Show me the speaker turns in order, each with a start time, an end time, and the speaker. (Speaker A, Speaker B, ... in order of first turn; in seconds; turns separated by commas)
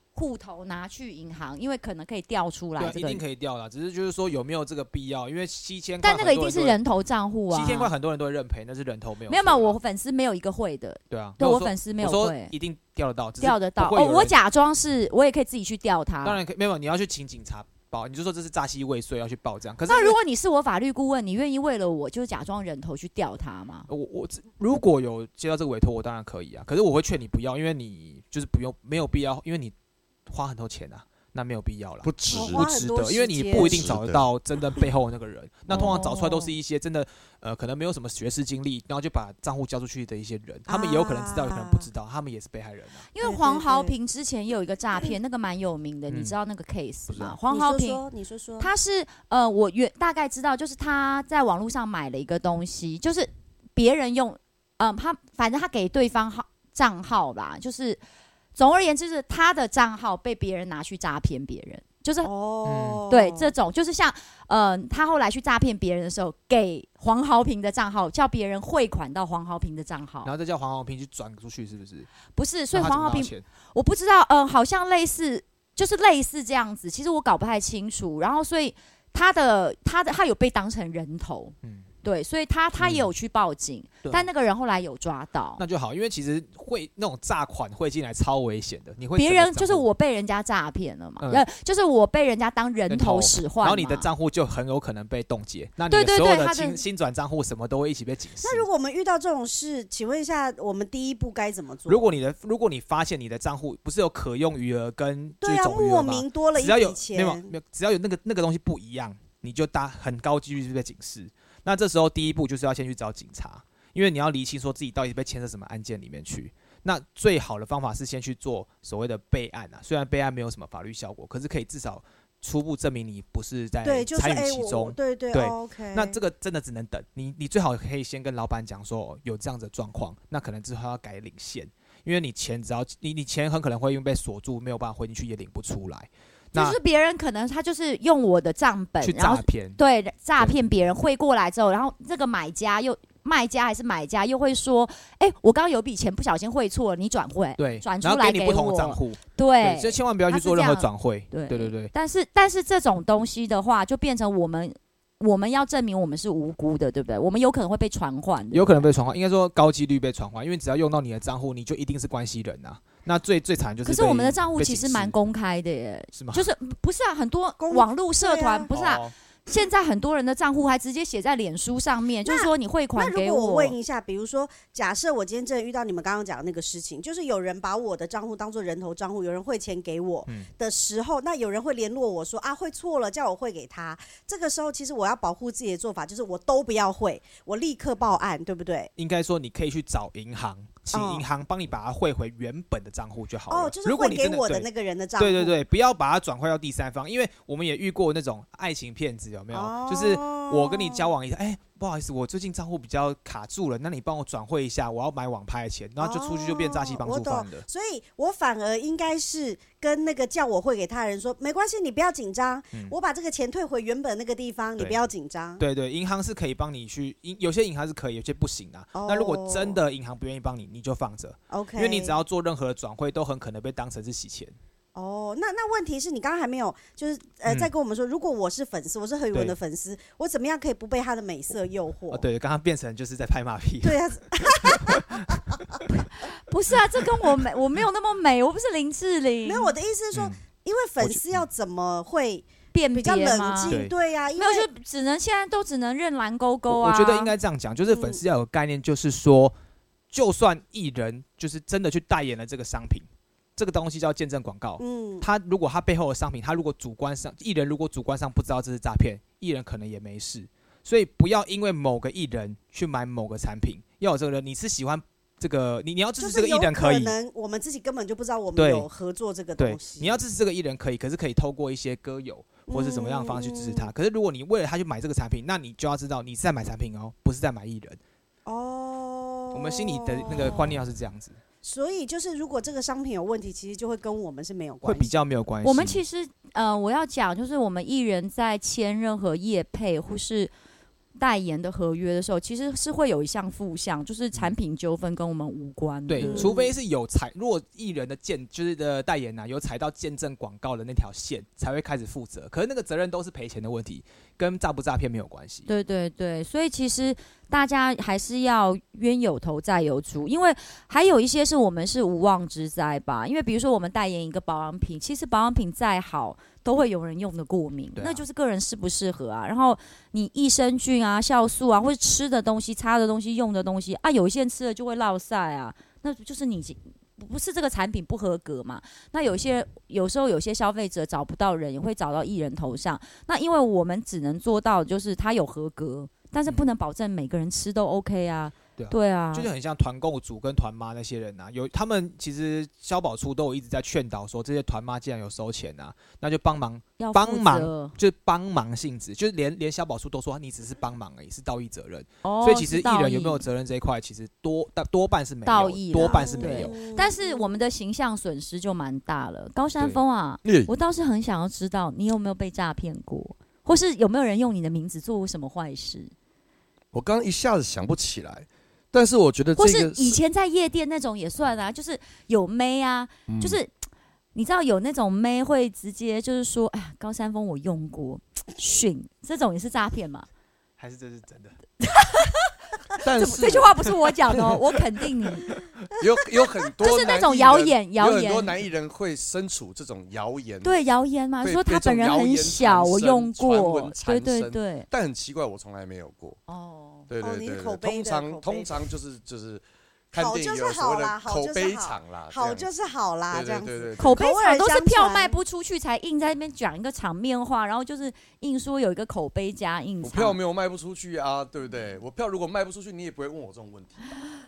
Speaker A: 0.1-3.2, Speaker B: 2.8-6.8, Speaker A: 6.0-7.9, Speaker B: 7.5-9.8, Speaker A: 9.3-12.5, Speaker B: 11.1-14.4, Speaker A: 13.4-16.4, Speaker B: 16.2-20.2, Speaker A: 19.9-23.9, Speaker B: 23.9-29.7, Speaker B: 30.3-43.1, Speaker C: 32.0-32.7, Speaker D: 32.3-33.9, Speaker C: 33.5-34.3, Speaker A: 35.7-36.5, Speaker D: 40.7-41.9, Speaker A: 43.1-48.0, Speaker D: 43.2-43.9, Speaker B: 46.1-46.4, Speaker B: 47.1-47.4, Speaker D: 47.5-48.7, Speaker A: 48.6-58.0, Speaker A: 58.5-62.3, Speaker D: 62.2-63.5, Speaker B: 62.7-63.0, Speaker A: 63.1-70.3, Speaker B: 70.2-72.1, Speaker A: 72.3-85.6, Speaker B: 72.7-73.5, Speaker B: 82.8-83.1, Speaker B: 85.6-89.9, Speaker A: 89.2-94.1, Speaker B: 92.9-98.7, Speaker A: 95.9-96.8, Speaker D: 98.4-102.1, Speaker B: 101.9-136.8, Speaker D: 105.4-107.5, Speaker D: 123.8-126.2, Speaker A: 136.5-158.9, Speaker B: 139.0-139.8, Speaker B: 147.6-151.9, Speaker B: 158.5-165.2, Speaker A: 163.8-173.8, Speaker B: 166.1-166.5, Speaker D: 167.6-168.7, Speaker B: 168.7-169.1, Speaker D: 172.2-188.9, Speaker B: 189.0-194.7, Speaker D: 190.9-191.2, Speaker D: 193.5-195.6, Speaker B: 195.2-207.7, Speaker D: 199.5-201.1, Speaker D: 206.0-215.6, Speaker B: 215.6-224.6, Speaker D: 218.9-219.8, Speaker D: 221.5-222.2, Speaker D: 224.9-232.2, Speaker B: 232.1-235.5, Speaker D: 233.8-235.3, Speaker A: 236.2-239.7, Speaker D: 239.5-244.7, Speaker B: 240.1-240.4, Speaker B: 241.0-241.4, Speaker A: 242.7-243.8, Speaker B: 243.7-243.9, Speaker A: 244.4-247.3, Speaker B: 246.7-249.6, Speaker D: 247.9-248.2, Speaker B: 250.1-267.1, Speaker D: 254.8-255.3, Speaker D: 266.2-270.2, Speaker B: 268.6-268.9, Speaker B: 269.6-278.0, Speaker D: 272.7-273.9, Speaker D: 278.5-280.8, Speaker B: 279.5-281.4, Speaker D: 281.6-285.1, Speaker B: 284.8-286.0, Speaker A: 285.6-290.5, Speaker A: 291.2-296.6, Speaker B: 296.1-305.7, Speaker D: 296.2-296.7, Speaker A: 305.7-339.5, Speaker B: 317.9-318.2, Speaker B: 338.8-356.8, Speaker A: 347.0-347.9, Speaker A: 352.2-353.4, Speaker A: 355.4-366.1, Speaker D: 356.0-357.5, Speaker C: 360.4-360.7, Speaker C: 366.9-370.2, Speaker A: 369.6-373.7, Speaker C: 373.3-373.6, Speaker A: 374.3-380.3, Speaker B: 380.8-381.6, Speaker A: 381.8-385.5, Speaker C: 383.0-384.5, Speaker C: 386.0-390.8, Speaker A: 386.8-388.5, Speaker A: 390.6-394.9, Speaker C: 391.4-396.4, Speaker A: 396.5-397.1, Speaker C: 397.1-402.7, Speaker D: 397.2-398.8, Speaker D: 400.1-405.4, Speaker C: 403.3-404.2, Speaker A: 404.0-410.4, Speaker C: 410.0-414.0